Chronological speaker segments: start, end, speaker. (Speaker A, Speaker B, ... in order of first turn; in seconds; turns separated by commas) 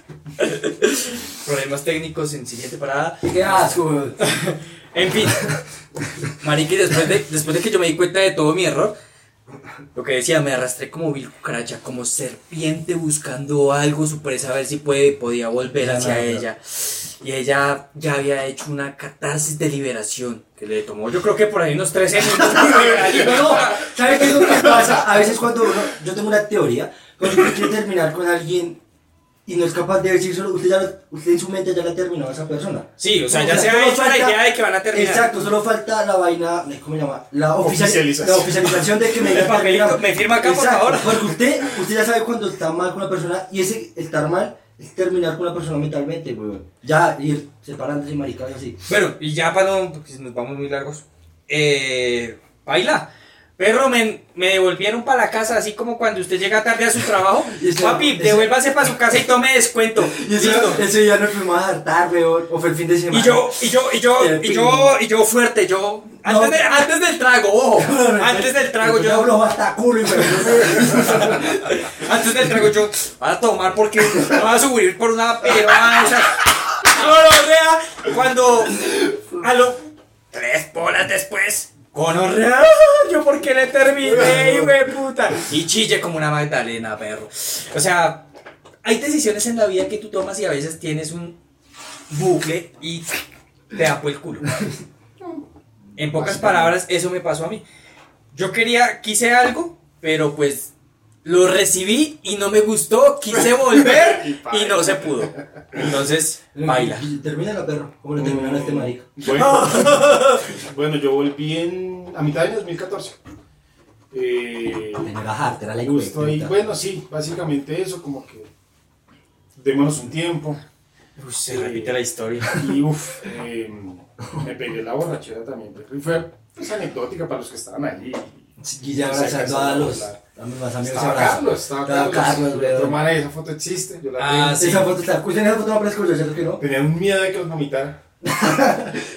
Speaker A: 0.4-5.6, Speaker B: 3.2-4.2, Speaker A: 6.4-8.9, Speaker A: 9.9-25.0, Speaker B: 15.8-16.4, Speaker B: 22.4-28.8, Speaker C: 22.7-23.6, Speaker B: 29.5-34.4, Speaker A: 33.0-35.4, Speaker B: 34.9-48.8, Speaker C: 37.6-39.5, Speaker A: 39.2-41.3, Speaker A: 48.9-60.8, Speaker B: 57.5-58.6, Speaker B: 60.0-63.6, Speaker A: 63.1-69.4, Speaker B: 64.2-65.0, Speaker B: 66.2-66.6, Speaker B: 67.8-71.6, Speaker A: 70.2-88.3, Speaker A: 88.8-91.4, Speaker A: 92.1-93.1, Speaker A: 93.7-94.5, Speaker A: 96.0-97.6, Speaker C: 96.1-96.8, Speaker A: 98.3-100.7, Speaker A: 101.2-107.0, Speaker C: 103.3-105.8, Speaker B: 106.5-109.1, Speaker C: 108.2-113.2, Speaker A: 109.2-110.5, Speaker C: 114.1-115.2, Speaker B: 115.1-116.5, Speaker C: 115.8-118.5, Speaker C: 119.6-120.6, Speaker A: 121.2-122.5, Speaker C: 121.5-128.4, Speaker B: 128.6-133.0, Speaker C: 128.9-130.2, Speaker C: 130.8-134.7, Speaker A: 134.2-134.9, Speaker B: 134.6-136.6, Speaker C: 136.6-138.0, Speaker B: 138.3-138.9